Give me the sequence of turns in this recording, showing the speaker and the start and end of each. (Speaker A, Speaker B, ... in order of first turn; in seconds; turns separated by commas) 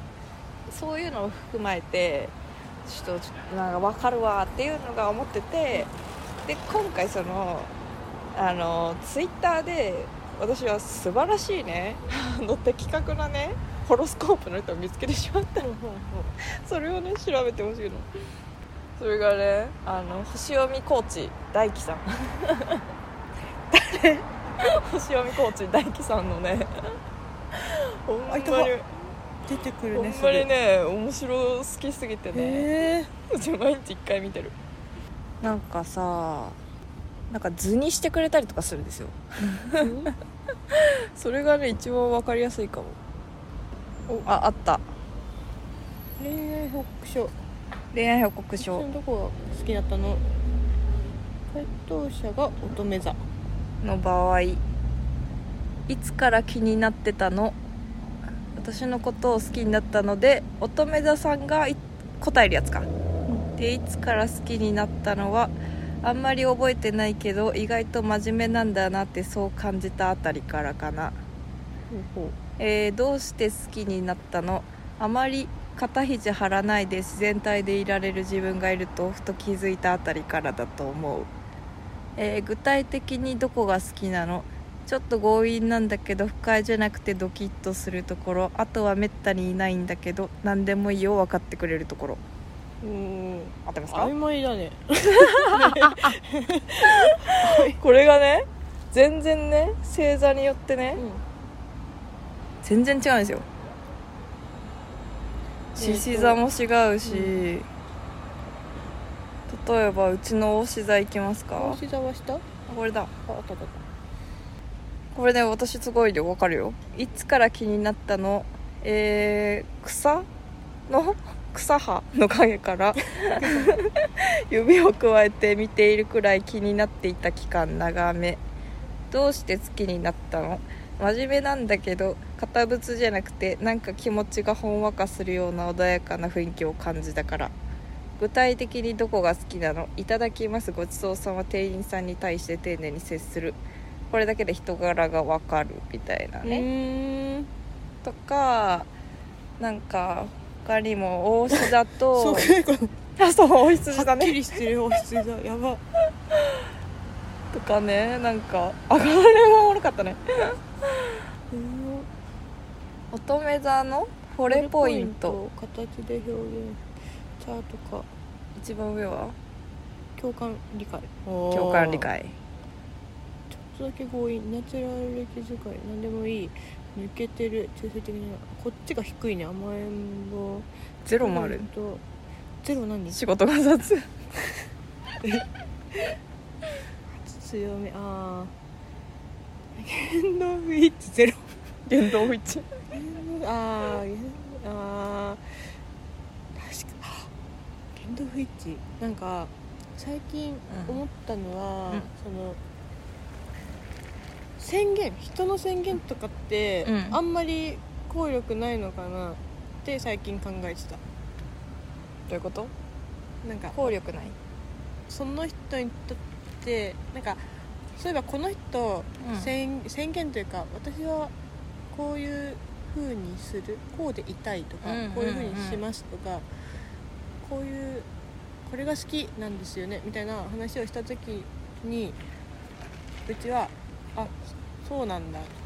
Speaker A: 0.7-5.9, Speaker A: 6.4-7.7, Speaker A: 8.3-15.7, Speaker B: 15.6-16.3, Speaker A: 16.4-18.1, Speaker A: 19.0-22.8, Speaker B: 23.7-24.2, Speaker A: 24.6-26.9, Speaker A: 27.5-28.9, Speaker B: 28.3-28.7, Speaker B: 29.4-30.5, Speaker A: 29.9-32.7, Speaker B: 32.3-33.1, Speaker A: 33.3-34.5, Speaker A: 35.4-36.6, Speaker A: 37.3-39.9, Speaker B: 39.8-40.1, Speaker A: 40.7-43.0, Speaker A: 44.2-44.8, Speaker B: 46.2-47.3, Speaker A: 47.9-48.8, Speaker B: 48.6-50.3, Speaker B: 51.5-53.2, Speaker A: 53.8-54.6, Speaker A: 55.9-57.5, Speaker A: 58.5-62.9, Speaker A: 63.5-71.2, Speaker B: 71.9-72.3, Speaker A: 72.6-81.3, Speaker A: 82.2-92.2, Speaker B: 92.8-97.8, Speaker A: 93.7-94.1, Speaker A: 95.0-96.2, Speaker A: 96.8-101.0, Speaker B: 101.0-101.2, Speaker A: 102.6-103.5, Speaker B: 105.8-106.4, Speaker A: 105.8-107.7, Speaker B: 107.0-107.4, Speaker A: 109.5-111.8, Speaker B: 111.5-112.4, Speaker A: 112.7-113.1, Speaker B: 113.3-113.8, Speaker A: 115.1-120.3, Speaker A: 120.9-128.4, Speaker B: 123.2-123.8, Speaker A: 129.1-137.5, Speaker A: 138.2-146.7, Speaker B: 146.4-147.5, Speaker A: 148.0-148.9, Speaker A: 149.6-152.5, Speaker B: 151.5-152.9, Speaker A: 153.2-154.4, Speaker B: 153.8-155.8, Speaker A: 156.3-156.6, Speaker A: 157.5-161.2, Speaker B: 161.5-162.1, Speaker A: 163.1-165.4, Speaker B: 164.5-166.8, Speaker B: 167.4-168.1, Speaker A: 168.6-169.3, Speaker B: 170.2-172.1, Speaker A: 171.5-172.3, Speaker B: 173.5-180.7, Speaker A: 181.0-181.7, Speaker B: 181.2-182.0, Speaker B: 182.6-183.2, Speaker A: 183.1-184.1, Speaker B: 185.2-186.2, Speaker B: 187.1-188.5, Speaker B: 189.8-191.6, Speaker A: 191.9-192.7, Speaker B: 192.9-195.7, Speaker B: 196.5-197.3, Speaker B: 197.9-202.6, Speaker A: 200.7-201.0, Speaker B: 204.6-211.0, Speaker A: 206.8-207.2, Speaker A: 212.3-212.7, Speaker B: 213.4-213.9, Speaker A: 213.7-214.3, Speaker B: 215.1-217.4, Speaker B: 217.9-221.3, Speaker A: 219.2-219.5, Speaker B: 221.9-226.4, Speaker A: 224.8-225.8, Speaker B: 227.4-228.1, Speaker B: 228.6-232.2, Speaker B: 233.2-235.5